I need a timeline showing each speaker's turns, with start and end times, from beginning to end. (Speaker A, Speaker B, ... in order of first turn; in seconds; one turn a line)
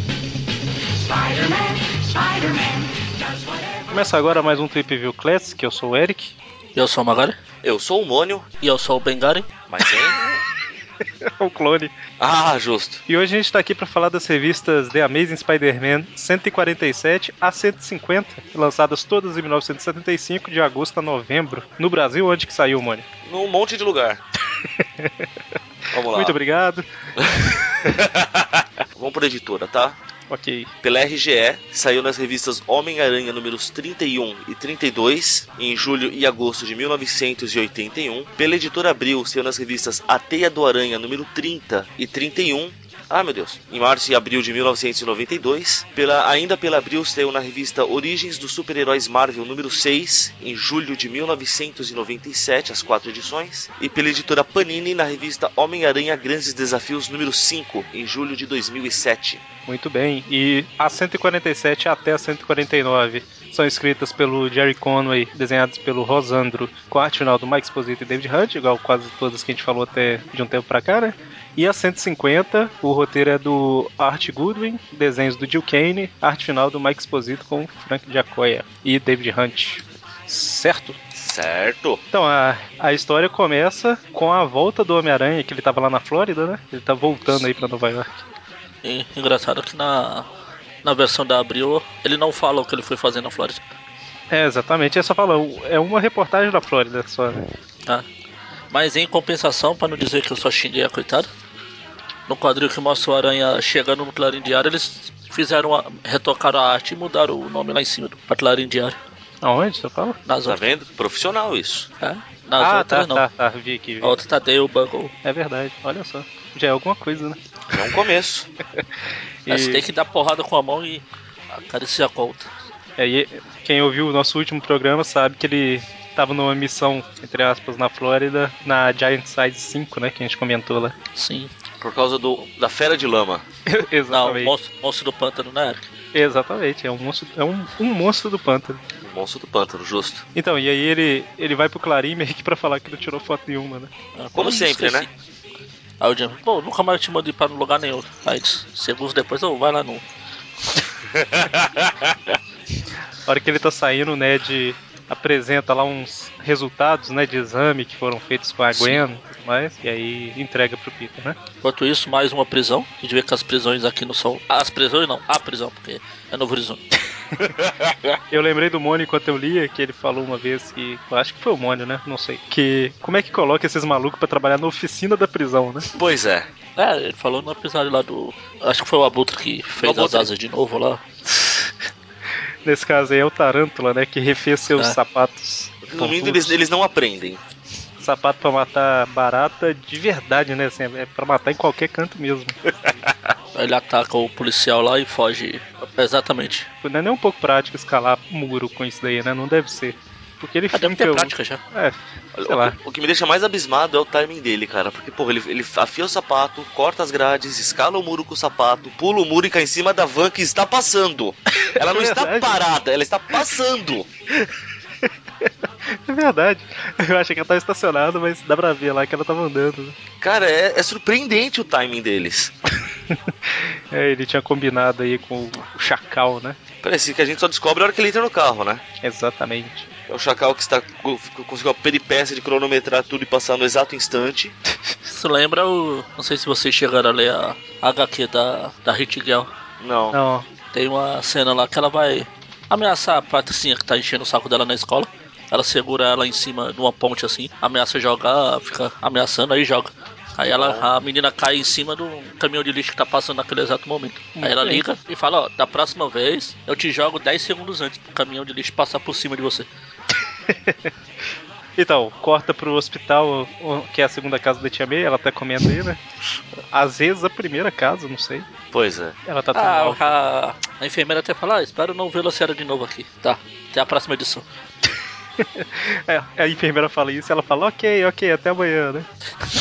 Speaker A: 3.9-6.3
Speaker B: 6.7-7.3
Speaker C: 7.6-8.5
Speaker B: 8.6-9.5
Speaker C: 9.7-10.2
Speaker A: 11.2-11.9
Speaker C: 12.2-13.0
Speaker A: 13.1-23.1
Speaker C: 23.2-24.2
Speaker A: 24.8-25.2
Speaker C: 25.9-26.4
Speaker A: 26.1-26.9
Speaker C: 27.2-30.0
Speaker A: 30.3-30.7
Speaker C: 30.8-59.4
Speaker A: 59.7-81.0
Speaker C: 81.1-82.0
Speaker A: 82.1-88.2
Speaker B: 88.8-90.3
Speaker B: 90.8-93.6
Speaker A: 94.3-97.5
Speaker B: 98.7-101.3
Speaker B: 102.3-109.0
Speaker A: 109.4-110.2
Speaker B: 110.3-110.6
Speaker C: 110.4-111.9
Speaker B: 112.0-113.2
Speaker A: 112.6-114.2
Speaker B: 114.0-115.1
Speaker A: 115.2-117.4
Speaker C: 117.7-118.5
Speaker A: 119.5-119.8
Speaker B: 119.5-122.5
Speaker A: 123.0-130.9
Speaker B: 131.2-131.5
Speaker C: 131.8-133.4
Speaker A: 133.7-134.5
Speaker B: 134.1-135.9
Speaker A: 136.1-138.8
Speaker C: 139.0-140.2
Speaker A: 140.3-143.9
Speaker B: 144.2-145.1
Speaker C: 144.3-145.1
Speaker B: 146.0-150.0
Speaker C: 151.1-152.4
Speaker A: 153.2-161.4
Speaker B: 158.7-159.0
Speaker B: 161.6-166.8
Speaker C: 167.4-168.2
Speaker A: 168.3-175.9
Speaker C: 175.9-176.5
Speaker B: 176.8-181.0
Speaker C: 179.8-180.3
Speaker A: 181.4-181.7
Speaker A: 182.6-186.6
Speaker C: 185.8-187.4
Speaker A: 188.0-193.0
Speaker B: 193.5-196.7
Speaker A: 196.8-202.8
Speaker B: 200.7-201.6
Speaker C: 202.3-214.1
Speaker A: 211.6-212.8
Speaker A: 215.0-220.0
Speaker C: 220.2-222.5
Speaker A: 223.1-226.6
Speaker C: 226.8-228.8
Speaker A: 229.0-229.9
Speaker C: 230.1-234.5
Speaker B: 235.1-239.5
Speaker C: 239.8-240.2
Speaker A: 240.1-240.4
Speaker B: 240.7-259.7
Speaker C: 250.5-250.8
Speaker A: 254.4-254.8
Speaker A: 260.5-260.9
Speaker A: 261.8-266.0
Speaker A: 266.7-268.4
Speaker C: 268.7-269.1
Speaker A: 269.2-270.1
Speaker B: 269.5-274.4
Speaker A: 275.4-279.1